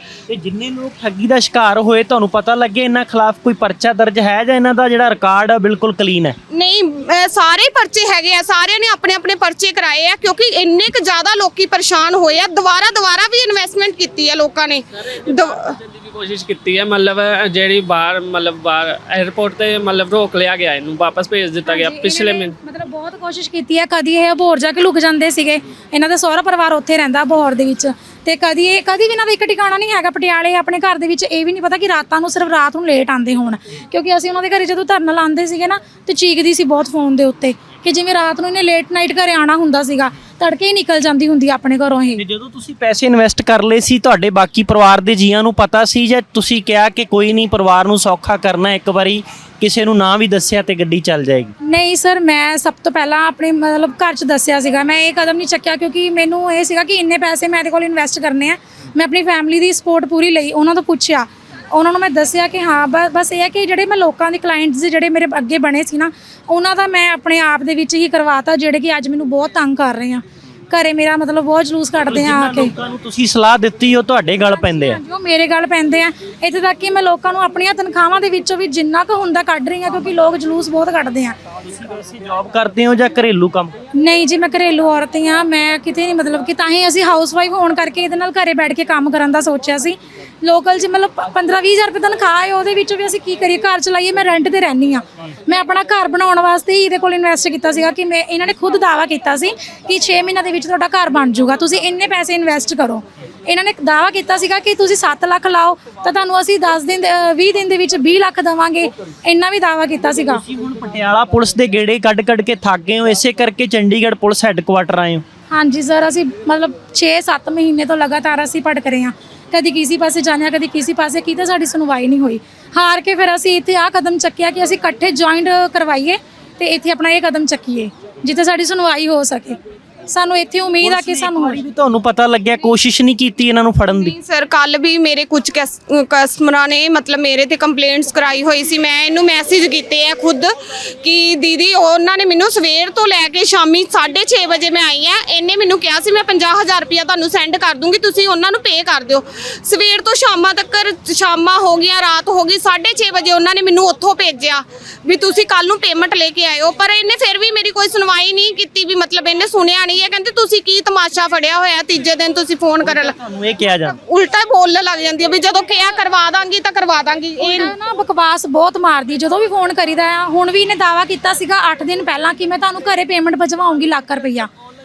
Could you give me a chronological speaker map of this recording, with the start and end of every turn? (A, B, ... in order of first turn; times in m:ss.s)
0:00.3-0:06.4 A
0:06.5-0:15.8 B
0:15.1-0:22.6 C
0:21.6-0:42.2 D
0:42.2-0:51.5 A
0:51.6-1:12.7 D
1:12.1-1:15.0 A
1:14.4-1:21.4 D
1:21.6-1:23.8 A
1:23.9-1:50.4 D
1:50.3-1:55.2 A
1:55.5-2:11.6 D
2:10.8-2:14.1 A
2:13.9-2:43.2 B
2:42.8-2:44.0 A
2:43.8-2:47.7 B
2:47.4-2:54.5 D